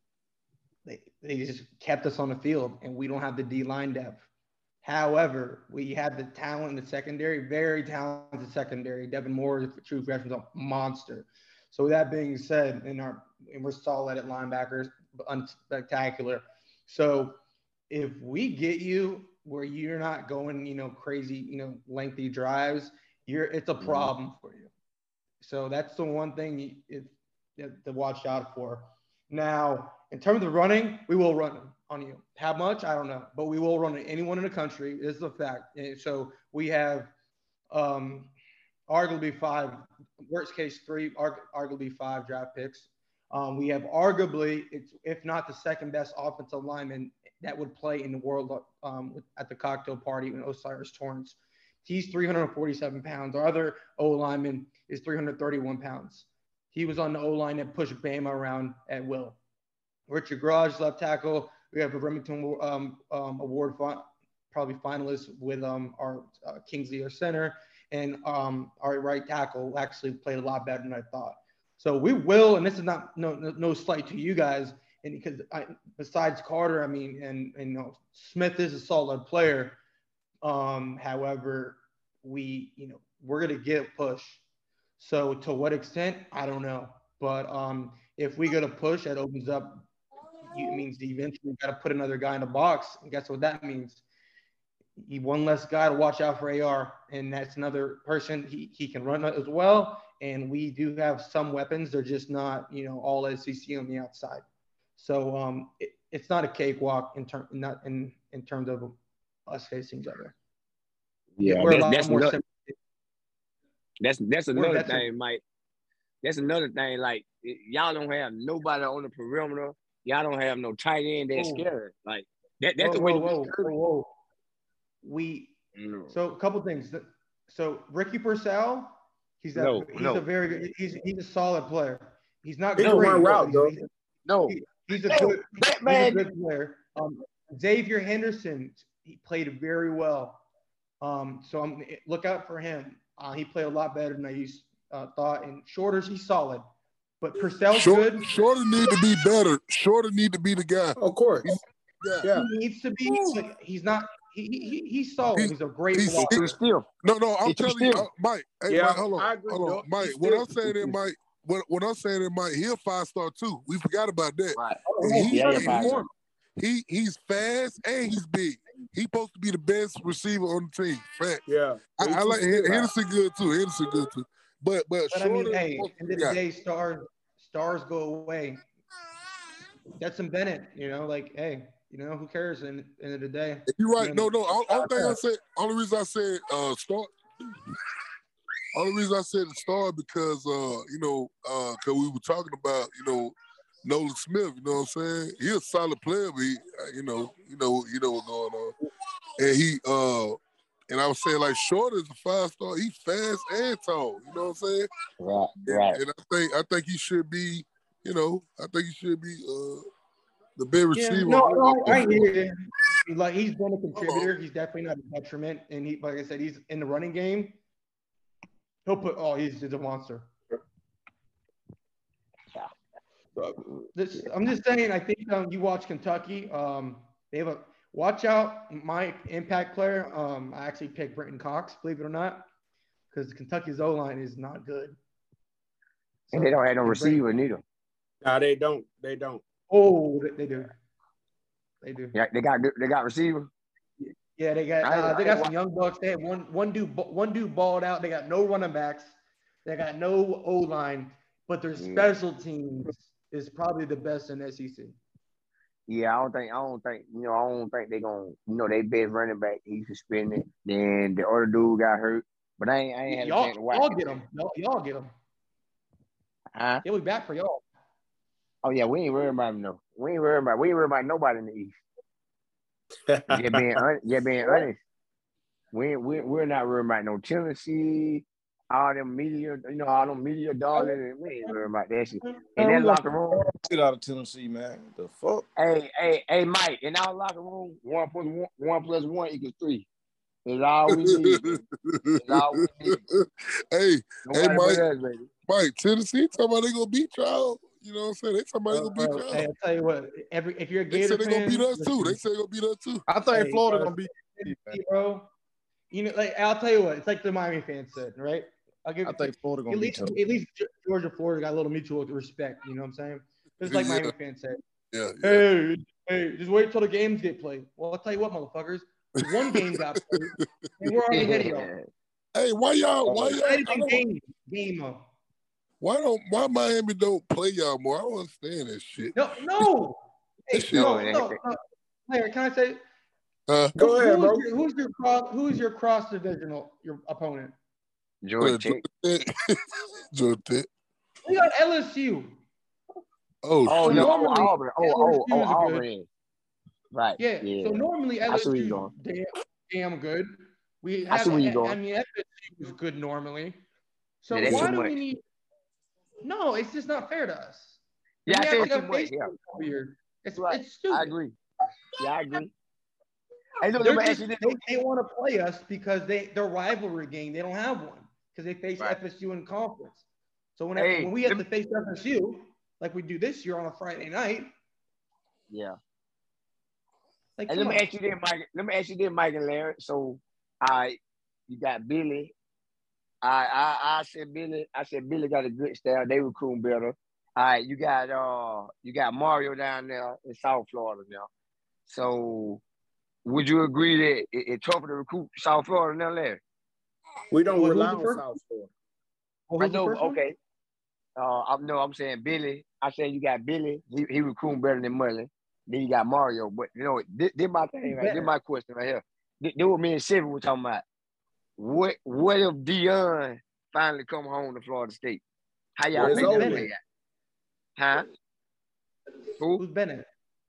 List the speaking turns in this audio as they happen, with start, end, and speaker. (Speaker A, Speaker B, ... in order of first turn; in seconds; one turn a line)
Speaker A: 0.9-4.2
Speaker A: 4.8-17.4
Speaker A: 17.9-24.7
Speaker B: 23.8-24.1
Speaker A: 25.4-37.1
Speaker A: 37.7-38.3
Speaker A: 38.9-59.4
Speaker A: 60.1-79.8
Speaker A: 80.4-84.4
Speaker A: 85.0-89.9
Speaker A: 90.5-94.0
Speaker A: 95.0-104.5
Speaker A: 105.0-109.0
Speaker A: 109.5-110.3
Speaker B: 111.4-112.4
Speaker A: 111.4-112.8
Speaker B: 114.0-115.4
Speaker A: 114.5-115.1
Speaker B: 116.2-123.7
Speaker A: 121.3-121.7
Speaker A: 122.8-124.1
Speaker A: 125.0-125.6
Speaker B: 125.8-126.1
Speaker A: 126.1-133.9
Speaker B: 129.6-130.2
Speaker B: 132.8-133.2
Speaker C: 132.8-133.7
Speaker B: 134.3-136.2
Speaker A: 134.5-140.4
Speaker A: 141.0-146.6
Speaker A: 147.2-148.3
Speaker D: 147.7-152.3
Speaker C: 151.0-151.5
Speaker C: 152.2-152.5
Speaker A: 152.3-156.5
Speaker D: 155.3-156.5
Speaker B: 156.3-156.9
Speaker D: 157.0-166.1
Speaker B: 157.4-158.1
Speaker C: 158.7-160.8
Speaker B: 164.6-166.1
Speaker A: 164.8-166.1
Speaker D: 166.6-171.4
Speaker C: 171.5-172.9
Speaker D: 172.0-176.4
Speaker A: 175.1-178.6
Speaker A: 180.0-185.2
Speaker D: 183.7-187.5
Speaker D: 188.7-198.8
Speaker D: 199.4-200.4
Speaker D: 200.9-204.9
Speaker B: 205.2-206.0
Speaker D: 205.7-209.8
Speaker D: 210.6-212.3
Speaker A: 210.9-217.6
Speaker D: 213.9-214.3
Speaker A: 218.9-220.3
Speaker A: 223.9-232.5
Speaker A: 233.1-235.0
Speaker A: 236.3-237.2
Speaker B: 236.3-237.6
Speaker C: 238.2-239.4
Speaker A: 239.7-240.8
Speaker A: 241.8-242.2
Speaker B: 242.1-243.5
Speaker A: 244.4-255.0
Speaker B: 244.8-245.5
Speaker B: 251.8-252.1
Speaker B: 255.9-264.0
Speaker A: 263.1-265.1
Speaker B: 266.6-266.8
Speaker A: 266.8-267.6
Speaker B: 268.6-271.8
Speaker C: 273.1-273.8
Speaker B: 273.3-274.8
Speaker B: 275.7-283.5
Speaker E: 282.6-285.5
Speaker B: 285.6-289.9
Speaker B: 290.5-291.6
Speaker D: 290.9-294.8
Speaker B: 292.2-293.1
Speaker B: 294.3-295.3
Speaker D: 295.5-299.5
Speaker A: 298.7-302.2
Speaker D: 300.9-303.0
Speaker E: 303.1-304.8
Speaker A: 303.3-305.3
Speaker A: 305.9-314.6
Speaker E: 309.1-310.2
Speaker D: 313.6-314.1
Speaker D: 314.9-315.5
Speaker A: 315.2-321.7
Speaker D: 319.2-321.0
Speaker B: 321.1-321.9
Speaker D: 322.4-324.0
Speaker A: 323.1-325.0
Speaker D: 325.8-329.7
Speaker A: 329.1-332.8
Speaker D: 330.5-331.0
Speaker B: 330.6-331.4
Speaker D: 333.5-333.8
Speaker C: 333.8-334.4
Speaker A: 333.8-337.5
Speaker B: 338.2-338.8
Speaker D: 338.4-340.7
Speaker A: 341.2-342.4
Speaker D: 343.4-344.1
Speaker B: 343.7-346.1
Speaker A: 343.8-345.9
Speaker B: 346.9-348.9
Speaker A: 347.2-353.6
Speaker B: 351.1-351.8
Speaker A: 354.2-355.2
Speaker B: 354.3-355.0
Speaker A: 356.2-361.1
Speaker B: 358.3-359.3
Speaker B: 360.4-361.3
Speaker B: 362.0-362.5
Speaker B: 363.6-364.6
Speaker A: 363.8-370.0
Speaker A: 370.6-374.5
Speaker B: 370.8-371.4
Speaker B: 375.5-375.8
Speaker A: 377.4-377.9
Speaker B: 377.5-382.3
Speaker B: 383.2-391.3
Speaker B: 391.9-392.6
Speaker B: 393.2-396.4
Speaker C: 397.3-398.7
Speaker A: 397.5-398.2
Speaker A: 399.5-400.2
Speaker B: 399.6-400.4
Speaker B: 401.2-410.8
Speaker A: 407.9-408.3
Speaker B: 411.6-415.2
Speaker B: 415.8-416.8
Speaker C: 415.9-416.7
Speaker A: 416.0-416.7
Speaker B: 417.8-418.1
Speaker A: 419.6-420.1